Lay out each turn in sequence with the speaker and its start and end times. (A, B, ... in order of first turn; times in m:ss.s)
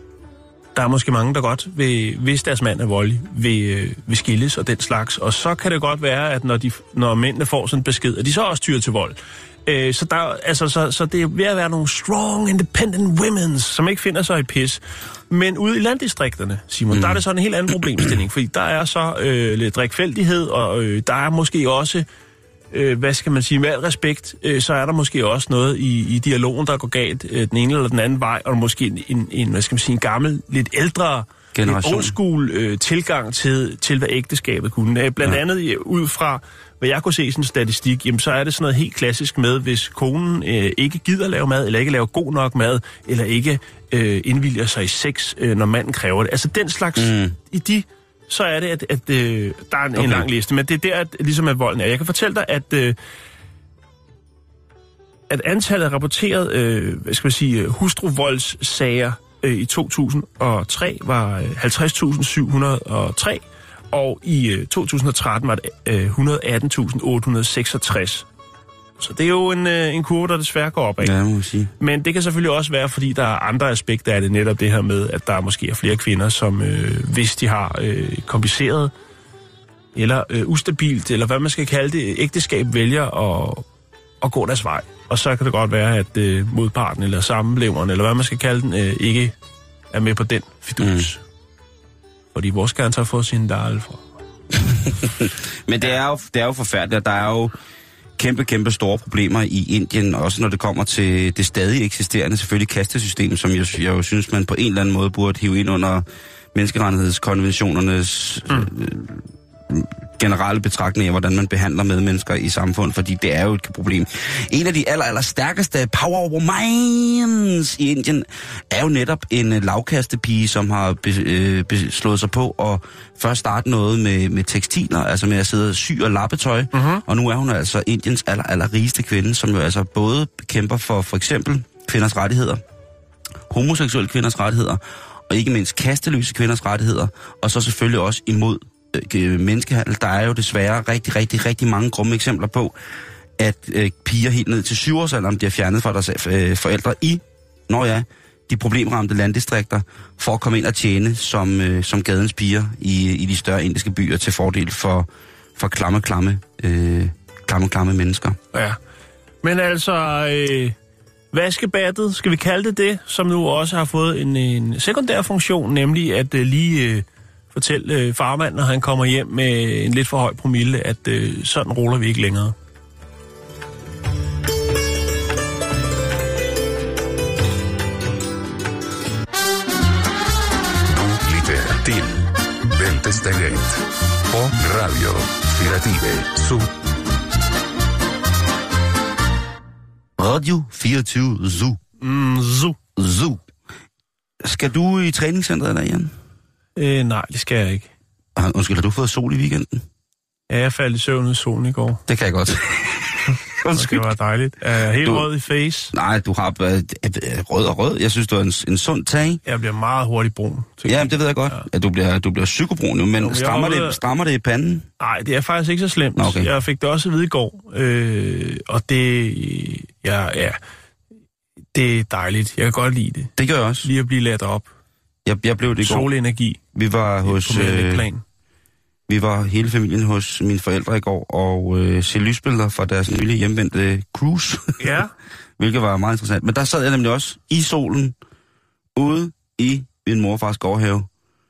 0:00.8-0:22.1 A
0:16.9-0:17.2 B
0:22.7-0:53.0 A
0:31.5-0:32.2 B
0:47.0-0:47.4 B
0:50.0-0:50.3 B
0:55.3-1:08.3 A
1:09.0-1:11.1 A
1:11.0-1:11.7 B
1:11.8-1:18.9 A
1:20.0-1:23.7 A
1:24.2-1:29.4 A
1:29.9-1:31.2 A
1:30.8-1:31.1 B
1:32.3-1:34.0 A
1:34.6-1:37.5 B
1:38.2-2:12.6 B
2:06.7-2:07.0 A
2:13.5-2:22.8 B
2:23.4-2:38.4 B
2:38.5-2:38.8 A
2:39.4-2:40.8 A
2:41.3-2:52.6 A
3:00.9-3:06.7 C
3:10.2-3:11.8 B
3:12.0-3:12.8 A
3:13.0-3:13.4 B
3:14.4-3:16.1 B
3:16.8-3:17.9 A
3:18.4-3:19.8 B
3:20.5-3:22.0 A
3:22.1-3:24.1 B
3:23.7-3:25.9 A
3:25.0-3:25.3 B
3:25.9-3:29.4 B
3:29.5-3:31.7 A
3:30.9-3:34.9 B
3:33.2-3:34.0 A
3:35.0-3:40.6 A
3:36.2-3:36.5 B
3:41.7-3:43.3 A
3:43.4-3:43.9 B
3:43.8-3:44.7 A
3:45.3-3:46.1 B
3:45.8-3:46.6 A
3:46.8-3:48.0 B
3:47.2-3:48.2 A
3:49.1-3:54.8 B
3:54.8-3:55.1 A
3:55.6-3:58.2 B
3:59.0-4:01.1 B